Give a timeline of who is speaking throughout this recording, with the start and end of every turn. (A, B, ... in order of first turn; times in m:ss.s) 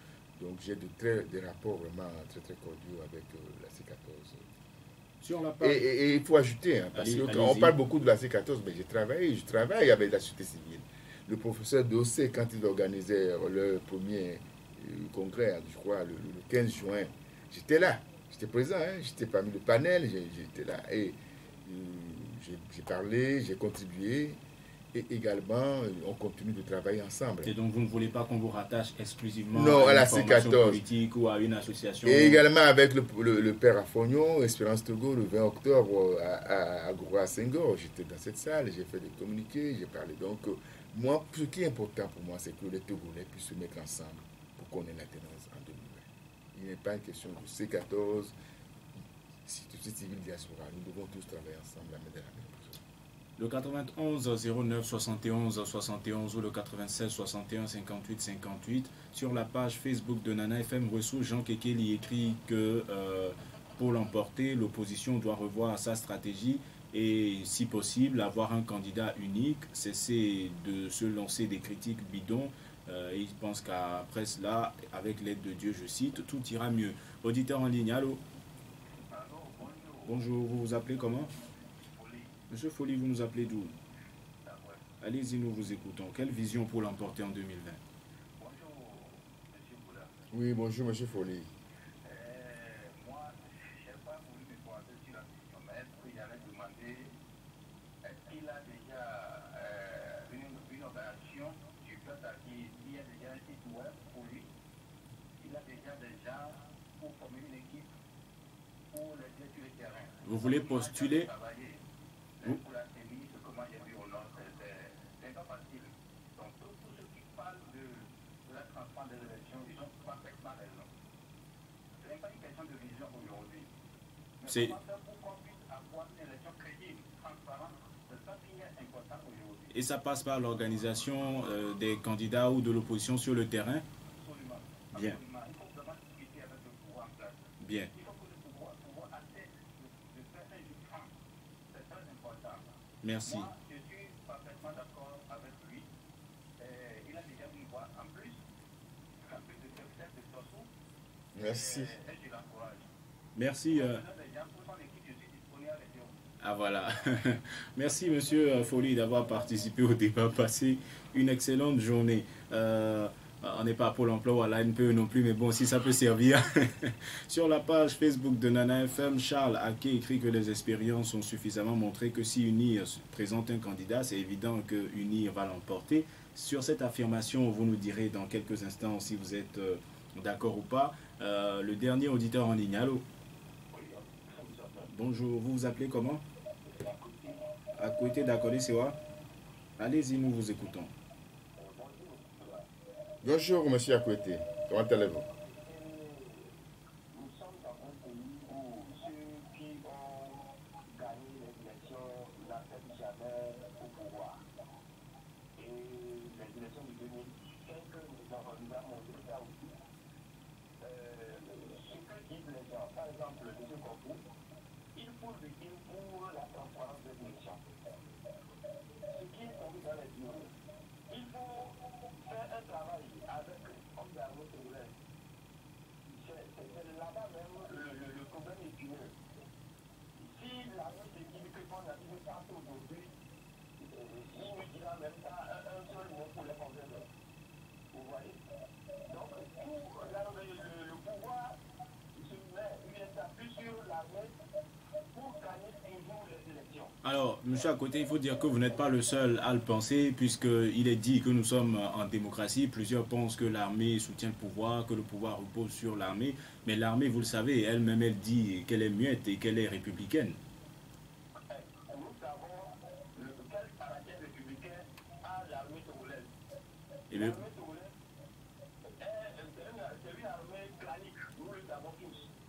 0:00.4-0:04.5 A
0:05.2-0:05.9 B
0:05.6-0:24.4 A
0:07.0-0:07.8 B
0:24.9-0:27.5 A
0:27.4-0:32.4 B
0:29.5-0:30.8 A
0:32.0-0:48.3 A
0:49.5-0:52.8 A
0:53.4-1:18.2 B
1:19.0-1:20.3 C
1:20.1-1:21.3 B
1:21.2-1:22.4 C
1:22.5-1:23.8 B
1:24.4-1:24.8 C
1:25.0-1:27.8 B
1:28.4-1:30.2 C
1:30.3-1:31.5 A
1:32.0-1:37.1 C
1:38.0-1:44.5 C
1:45.4-1:47.9 C
1:48.9-1:51.8 C
1:50.2-1:51.3 B
1:52.4-2:00.9 C
2:02.0-2:03.7 C
2:04.4-2:09.7 C
2:04.5-2:04.8 B
2:09.7-2:13.8 B
2:14.2-2:21.1 C
2:14.9-2:15.2 B
2:17.6-2:17.9 B
2:21.7-2:25.9 C
2:23.0-2:23.5 B
2:26.6-2:28.4 C
2:29.2-2:30.7 C
2:31.4-2:32.0 A
2:31.4-2:32.9 C
2:33.4-2:34.0 B
2:33.7-2:36.2 C
2:36.4-3:03.0 B
3:03.7-3:04.9 C
3:04.9-3:06.2 B
3:06.6-3:07.5 C
3:07.8-3:09.0 B
3:09.8-3:10.9 B
3:11.6-3:12.7 C
3:13.2-3:15.3 A
3:15.5-3:16.6 C
3:17.1-3:24.4 C
3:25.6-3:29.8 C
3:30.8-3:34.2 C
3:35.0-3:37.6 C
3:39.1-3:40.5 C
3:41.1-3:45.0 C
3:46.1-3:49.1 C
3:50.2-3:53.1 C
3:53.8-3:57.1 C
3:57.9-3:58.4 C
3:59.1-4:01.6 C
4:02.1-4:04.3 C
4:05.1-4:07.0 C
4:07.0-4:20.4 B
4:21.5-4:26.3 C
4:27.1-4:27.4 B
4:27.1-4:28.0 C
4:28.8-4:32.3 C